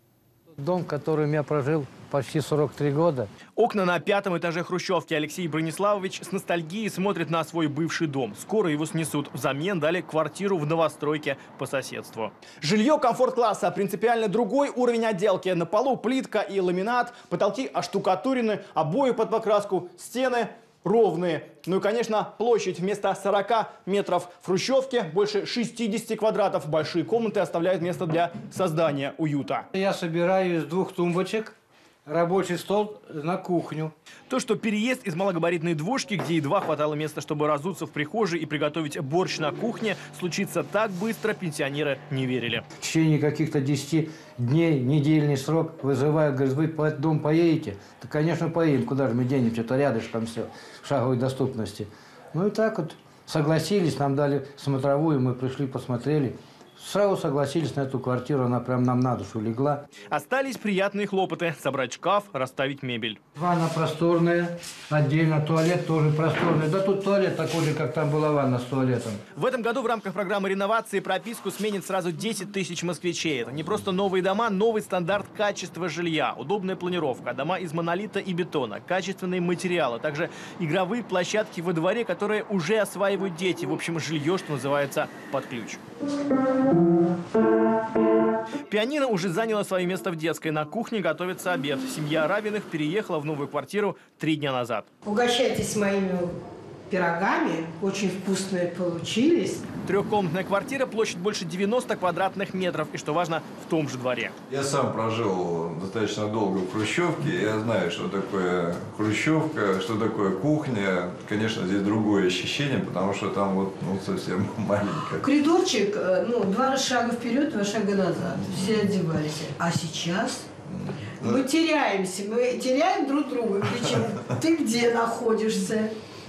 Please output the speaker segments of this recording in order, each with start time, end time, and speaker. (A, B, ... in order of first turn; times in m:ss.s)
0:00.6-0:03.3 A
0:03.6-0:29.6 B
0:29.7-0:31.5 A
0:32.0-0:33.9 A
0:34.3-0:42.6 B
0:42.8-0:59.8 A
1:00.1-1:03.2 B
1:03.3-1:09.2 A
1:09.3-1:25.8 B
1:28.7-1:34.9 B
1:35.0-1:36.3 C
1:36.9-1:39.6 C
1:39.8-1:44.3 B
1:44.5-1:55.2 D
1:55.2-2:00.5 C
2:00.7-2:01.4 D
2:01.2-2:05.9 C